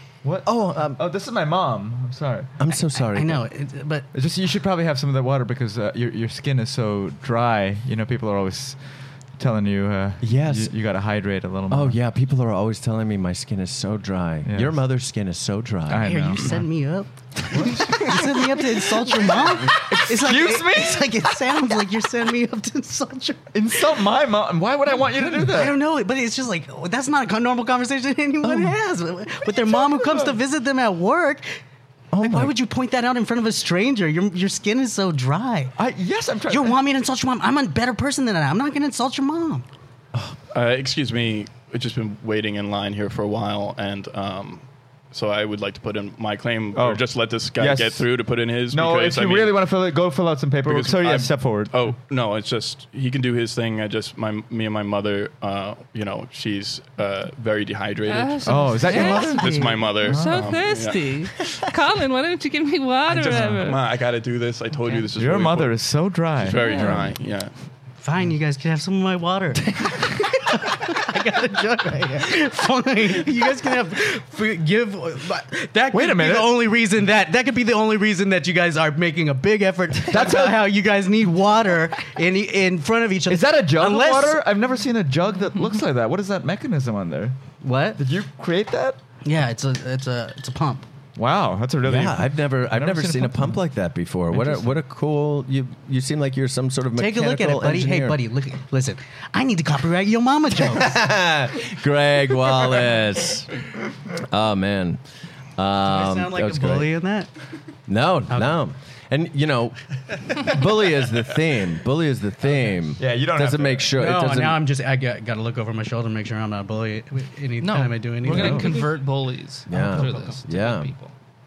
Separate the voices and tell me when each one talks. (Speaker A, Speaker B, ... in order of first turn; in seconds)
Speaker A: 0.2-2.5, 4.1-12.0, 14.4-14.8, 15.9-16.7, 17.5-18.5, 19.3-21.3, 23.5-25.8, 29.7-30.3, 35.8-36.8, 46.7-48.1, 48.7-51.9, 58.4-60.6, 63.3-63.8, 65.2-67.2, 75.9-76.6, 80.1-80.6, 83.3-87.3, 88.0-89.0, 91.2-93.6, 94.3-94.7, 113.0-114.0
Speaker B: 0.5-1.0, 2.6-3.4, 10.2-10.7, 11.7-16.2, 32.1-32.5, 91.8-98.2, 100.6-103.6, 104.1-105.0, 105.6-106.9, 107.9-109.8, 110.3-114.6, 118.3-118.8, 119.7-120.9
Speaker C: 3.0-4.1, 16.0-23.6, 25.4-31.4, 32.2-35.7, 36.5-39.7, 68.0-84.4, 87.6-88.0, 89.2-90.9, 97.0-101.0, 105.8-107.3, 114.0-118.8
Speaker D: 40.5-49.7, 50.6-61.3, 63.1-67.5, 120.1-120.4
Speaker E: 58.1-63.8, 66.6-66.9, 117.6-121.1